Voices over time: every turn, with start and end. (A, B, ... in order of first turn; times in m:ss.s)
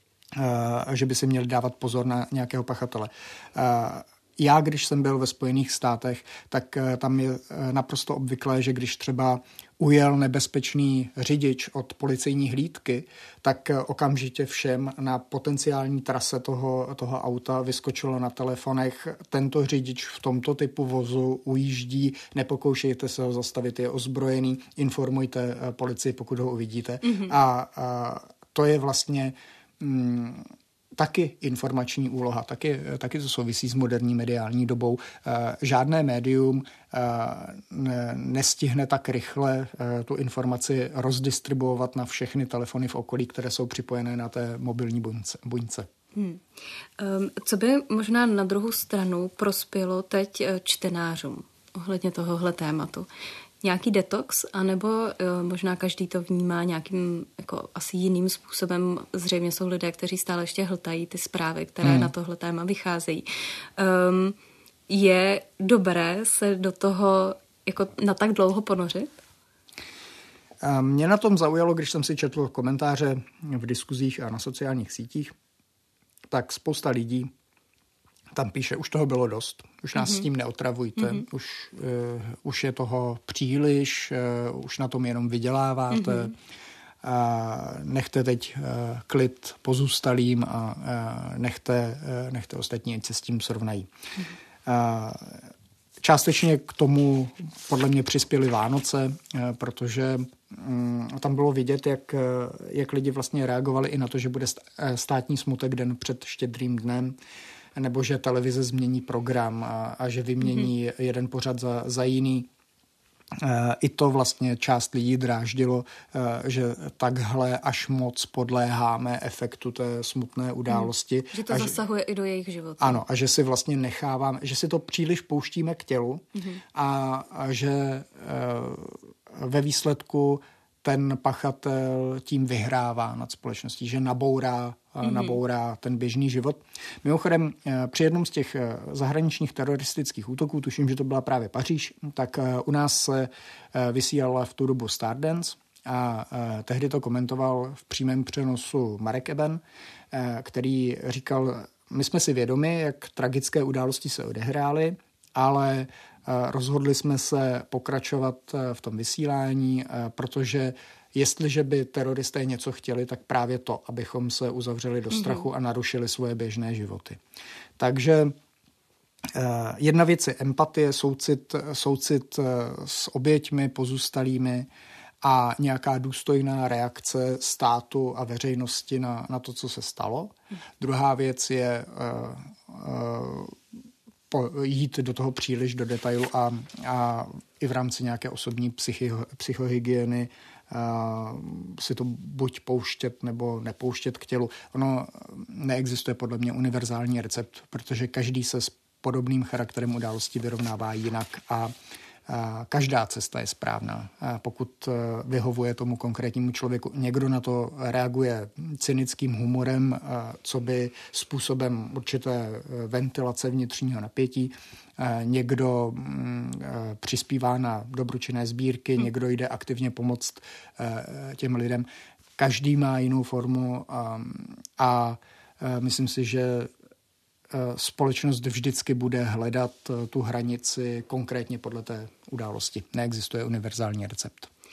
0:00.3-0:45.9 A
0:27.0-0:27.3 B
0:46.1-0:46.4 B
0:47.0-0:53.1 B
0:53.6-1:03.2 B
1:01.8-1:02.1 A
1:03.8-1:04.4 B
1:04.9-1:09.1 B
1:10.6-1:15.3 A
1:16.3-1:17.3 A
1:18.3-1:26.3 A
1:20.0-1:20.2 B
1:25.9-1:26.3 B
1:27.0-1:33.9 A
1:34.6-1:35.5 A
1:36.0-1:47.2 A
1:47.7-1:52.5 A
1:53.4-2:01.8 A
2:00.7-2:03.0 B
2:02.8-2:29.6 A
2:06.3-2:06.6 B
2:15.0-2:15.4 B
2:30.1-2:47.2 A
2:45.1-2:45.4 B
2:47.8-2:48.3 A
2:49.3-2:54.7 A
2:55.2-3:03.6 A
3:04.3-3:21.7 A
3:22.3-3:41.9 A
3:42.4-3:46.7 A
3:47.5-3:54.5 A